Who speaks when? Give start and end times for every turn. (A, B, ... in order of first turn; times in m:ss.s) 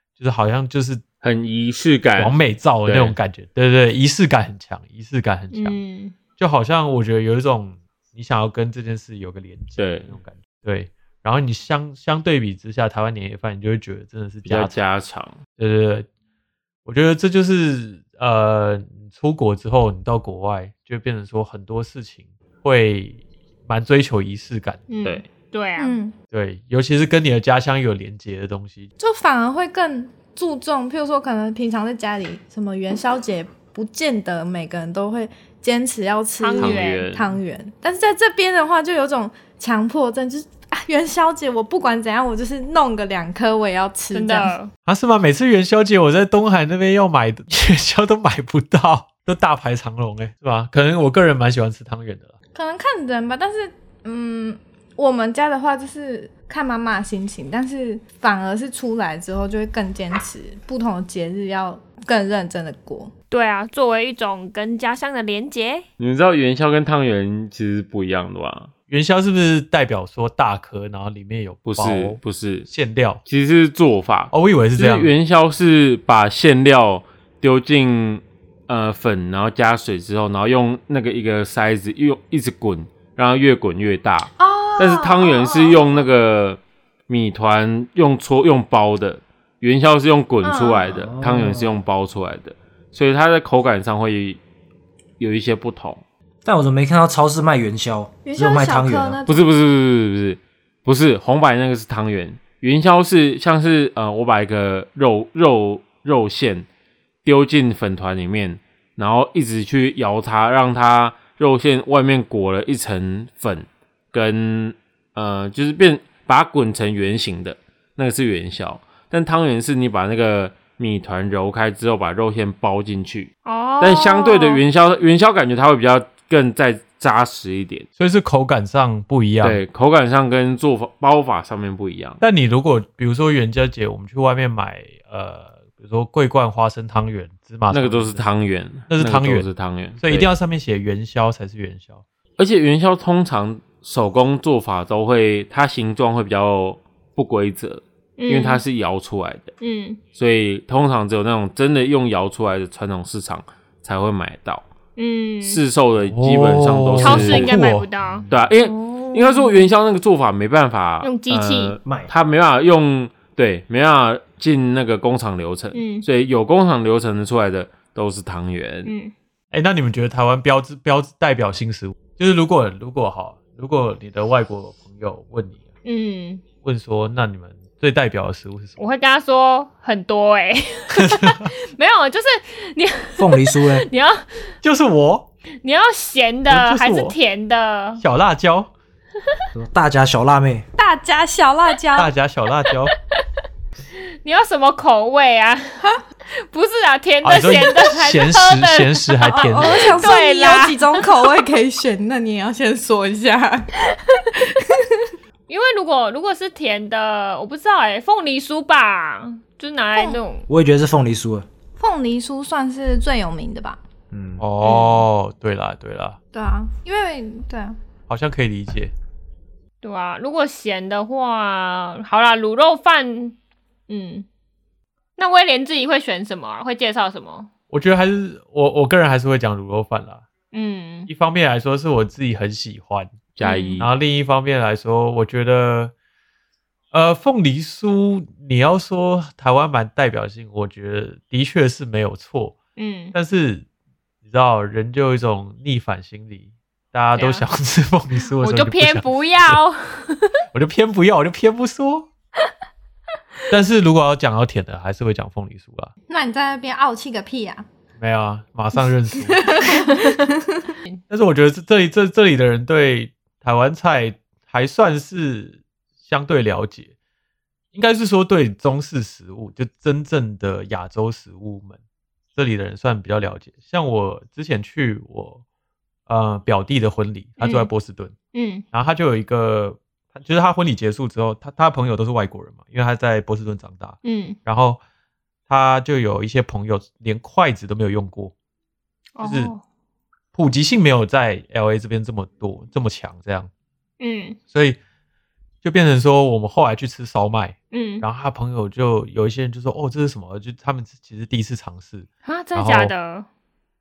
0:00.2-0:01.0 A
0:01.2-0:03.2 B
0:02.2-0:05.8 A
0:05.5-0:06.1 C
0:06.4-0:14.8 A
0:09.8-0:10.1 B
0:14.4-0:15.4 B
0:15.6-0:16.1 A
0:16.8-0:24.9 A
0:24.9-0:26.0 C
0:25.8-0:26.1 D
0:26.3-0:28.9 A
0:29.0-0:44.5 D
0:36.4-0:37.1 C
0:36.6-0:37.4 B
0:44.1-0:44.7 C
0:44.9-0:52.3 A
0:52.5-1:03.1 D
1:03.3-1:05.8 C
1:06.0-1:08.7 B
1:08.9-1:13.2 A
1:11.6-1:12.7 B
1:13.2-1:34.4 B
1:14.3-1:15.1 A
1:24.4-1:26.1 D
1:30.4-1:31.0 D
1:31.0-1:31.8 E
1:35.2-1:36.0 B
1:36.4-1:39.2 E
1:38.2-1:39.5 D
1:39.2-1:46.6 B
1:47.2-2:07.9 B
2:03.4-2:04.6 C
2:08.0-2:09.6 A
2:09.4-2:12.2 B
2:12.2-2:18.2 A
2:17.7-2:20.3 B
2:18.9-2:19.5 A
2:20.0-2:22.0 A
2:22.4-2:29.5 B
2:28.2-2:28.6 C
2:29.6-2:30.0 C
2:30.1-2:34.6 B
2:35.0-2:35.6 C
2:35.4-2:37.6 B
2:36.1-2:37.9 A
2:37.0-2:38.3 C
2:38.3-2:48.9 B
2:38.6-2:39.6 D
2:41.0-2:41.8 C
2:41.8-2:42.1 E
2:45.7-2:46.0 C
2:48.8-2:49.1 C
2:49.5-2:55.6 A
2:55.8-2:56.4 C
2:56.6-2:58.8 A
2:58.8-3:04.4 C
3:01.0-3:01.5 A
3:03.2-3:03.9 E
3:04.6-3:05.3 A
3:05.6-3:08.0 C
3:06.5-3:07.2 A
3:08.0-3:08.7 A
3:09.5-3:10.6 E
3:10.8-3:12.1 D
3:11.9-3:12.9 A
3:14.2-3:21.1 C
3:17.2-3:20.0 A
3:19.4-3:25.1 D
3:25.5-3:30.5 C
3:30.5-3:31.5 E
3:31.8-3:33.8 D
3:34.1-3:34.4 E
3:34.4-3:36.2 A
3:34.6-3:35.0 C
3:36.3-3:37.8 D
3:38.1-3:38.9 A
3:39.8-3:43.4 C
3:43.9-3:44.2 C
3:45.2-3:47.5 C
3:47.7-3:50.2 A
3:50.5-3:51.1 C
3:51.1-3:53.2 A
3:53.4-3:53.9 B
3:53.4-3:53.8 C
3:53.8-3:55.9 A
3:56.9-4:02.6 A
4:02.8-4:03.1 C
4:03.1-4:03.6 A
4:04.2-4:09.6 A
4:07.1-4:07.4 C
4:08.4-4:10.4 C
4:10.5-4:12.1 A
4:13.5-4:15.9 A
4:16.1-4:17.6 D
4:18.0-4:19.7 A
4:19.3-4:20.7 D
4:19.7-4:20.1 C
4:21.1-4:26.9 A
4:27.7-4:31.8 A
4:32.3-4:35.4 A
4:36.1-4:38.1 A
4:37.4-4:37.7 C
4:38.3-4:38.6 C
4:38.7-4:44.8 A
4:44.0-4:44.4 C
4:45.5-4:48.3 A
4:49.2-4:49.6 C
4:49.2-4:49.5 A
4:50.3-4:53.5 A
4:54.0-4:54.4 C
4:54.5-4:54.8 A
4:55.6-5:02.9 A
4:57.7-4:58.0 C
5:02.2-5:03.3 C